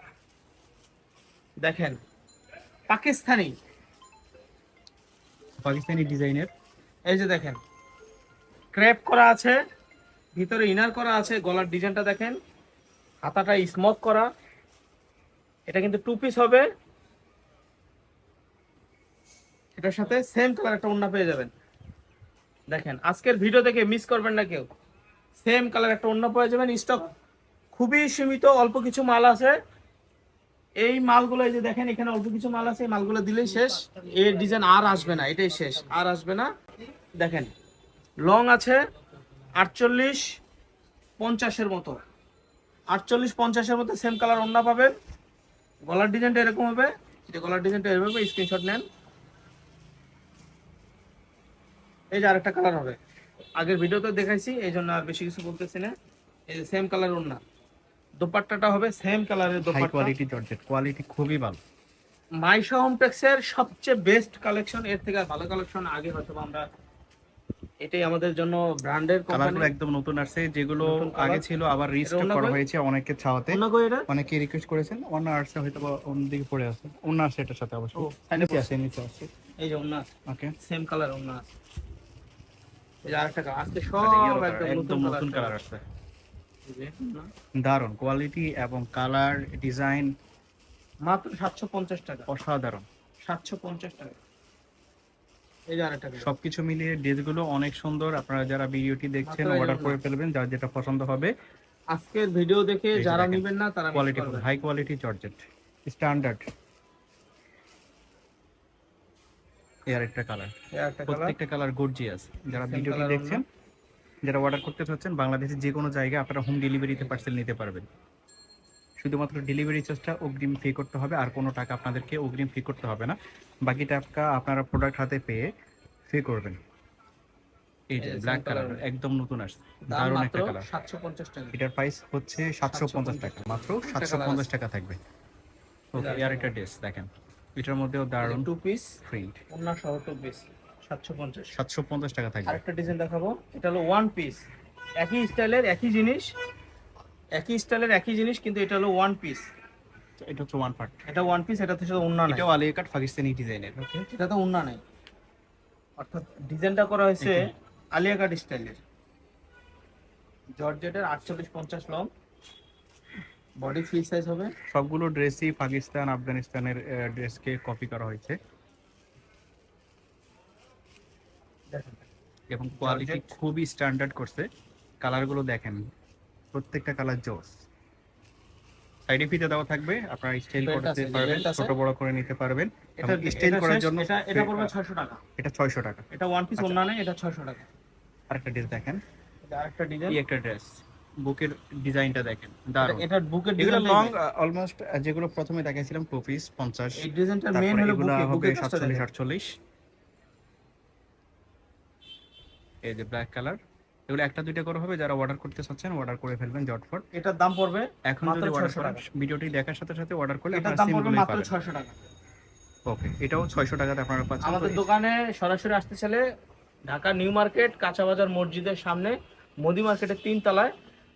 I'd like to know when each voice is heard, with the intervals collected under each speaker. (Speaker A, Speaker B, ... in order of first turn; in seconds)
Speaker A: 1.6-2.0, 2.9-3.5, 7.1-7.6, 8.7-9.6, 10.3-12.4, 13.2-14.3, 15.7-16.6, 19.8-21.5, 22.7-24.7, 25.4-27.1, 27.7-29.6, 30.8-36.5, 37.2-37.5, 38.2-38.8, 39.6-40.3, 41.2-42.0, 42.9-44.9, 45.9-48.9, 52.1-53.0, 53.6-55.9, 56.5-57.4, 58.2-60.1, 62.4-66.6, 67.8-69.7, 70.8-71.5, 72.0-72.6, 73.5-74.1, 78.0-78.7, 79.6-80.1, 80.6-81.5, 83.0-85.6, 86.7-87.3, 91.1-92.3, 93.3-94.2, 95.7-96.3, 99.2-100.0, 101.9-104.5, 110.7-111.4, 112.5-113.4, 117.0-117.3, 128.0-128.8, 129.9-131.5, 132.7-134.5, 136.0-136.5, 138.2-139.0, 139.5-141.6, 142.5-144.4, 145.0-146.3, 147.3-149.5, 151.1-152.4, 154.1-154.8, 156.0-157.4, 158.0-158.8, 160.6-162.1, 163.6-164.5, 171.7-172.1, 172.8-173.3, 180.6-181.7, 183.0-185.2, 186.1-187.7, 189.5-190.2, 192.8-194.2, 196.9-199.1, 207.1-209.0, 210.5-212.0, 214.4-216.2, 216.9-220.7
Speaker B: 5.6-6.5, 59.6-61.6, 69.3-79.3, 80.3-80.5, 84.0-85.8, 87.6-90.1, 92.3-92.9, 96.2-101.3, 103.0-106.5, 109.9-110.5, 111.1-113.5, 114.2-117.9, 119.0-125.5, 126.1-126.6, 127.9-130.7, 131.5-135.0, 135.9-138.5, 139.1-139.4, 141.5-142.6, 150.2-151.0, 152.3-154.1, 157.2-157.5, 164.7-168.4, 172.5-174.5, 175.0-175.8, 176.5-177.6, 179.1-184.7, 185.4-186.1, 188.3-189.0, 190.1-193.1, 193.6-199.6, 202.8-207.1, 208.1-211.5, 212.9-214.8